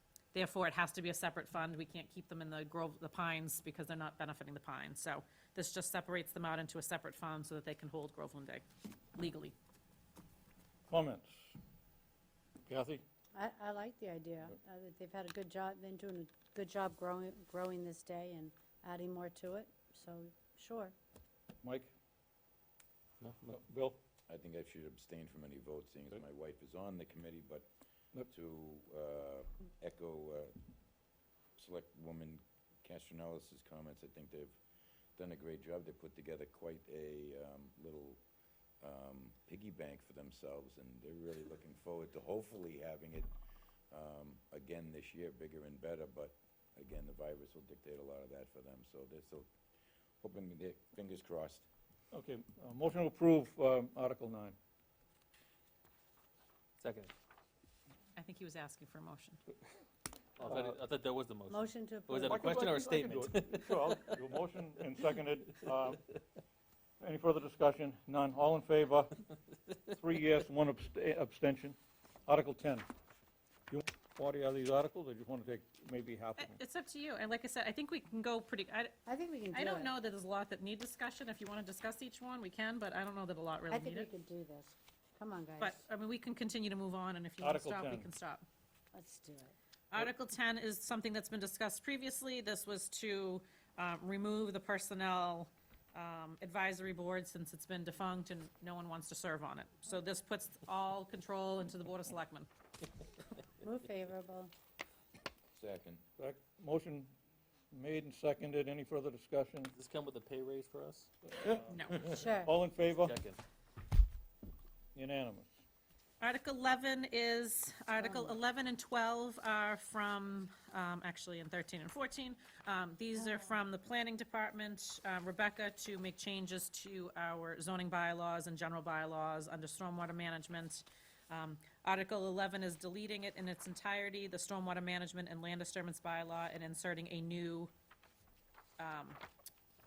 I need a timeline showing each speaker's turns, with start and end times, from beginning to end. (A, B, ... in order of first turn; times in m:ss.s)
0:00.3-0:09.6 A
0:10.9-0:11.4 B
0:12.7-0:13.0 B
0:13.3-0:20.9 C
0:21.6-0:21.9 B
0:23.2-0:23.5 D
0:23.5-0:24.0 B
0:24.3-0:27.7 E
0:28.3-0:30.5 E
0:31.6-0:34.6 E
0:35.2-0:38.2 E
0:38.8-0:43.3 E
0:43.9-0:49.5 E
0:50.2-0:51.7 E
0:52.1-0:54.6 B
0:56.8-0:57.1 D
0:58.2-0:59.4 A
1:00.4-1:03.7 D
1:00.4-1:00.8 B
1:01.5-1:02.5 C
1:02.2-1:06.0 B
1:07.0-1:09.2 B
1:09.9-1:12.9 B
1:13.7-1:16.6 B
1:16.4-1:18.9 A
1:19.1-1:19.9 C
1:19.5-1:24.1 A
1:23.7-1:25.8 C
1:25.6-1:28.4 A
1:27.4-1:28.1 B
1:28.9-1:29.6 C
1:29.9-1:42.5 A
1:43.6-1:44.5 C
1:45.6-1:46.0 E
1:46.2-1:47.1 B
1:47.7-1:49.7 B
1:49.8-1:51.1 D
1:51.3-1:53.2 B
1:51.7-1:52.0 A
1:52.1-1:52.5 C
1:52.9-1:53.4 D
1:55.0-1:55.5 B
1:56.2-2:17.7 A
1:58.0-1:58.4 C
2:03.2-2:03.5 C
2:18.8-2:19.2 A